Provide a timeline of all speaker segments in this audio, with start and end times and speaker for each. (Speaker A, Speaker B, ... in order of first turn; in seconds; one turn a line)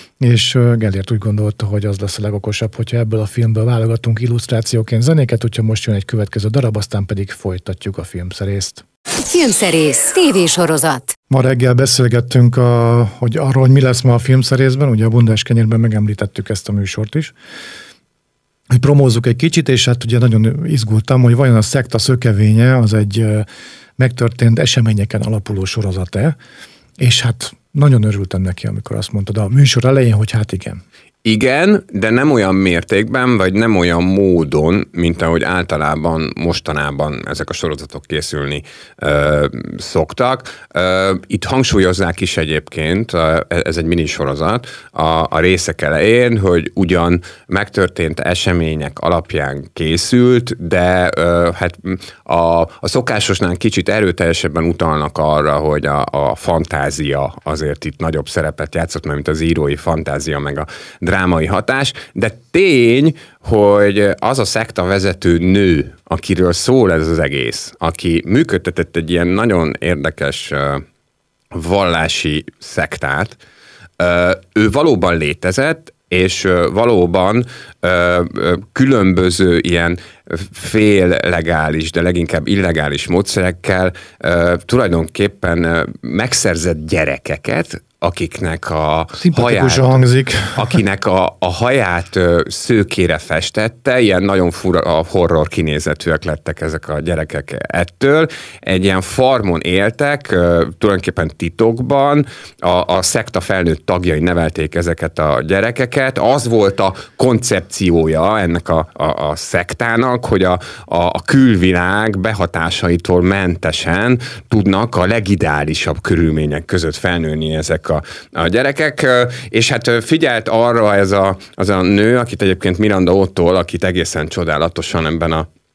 Speaker A: 0.2-8.8
Speaker B: 9.2-11.1
Speaker A: 11.3-17.3
Speaker A: 18.7-23.4
Speaker A: 24.0-26.3
Speaker A: 27.0-30.8
Speaker C: 31.2-70.8
Speaker C: 71.5-73.4
Speaker C: 74.0-90.0
Speaker A: 89.2-90.8
Speaker C: 90.5-125.5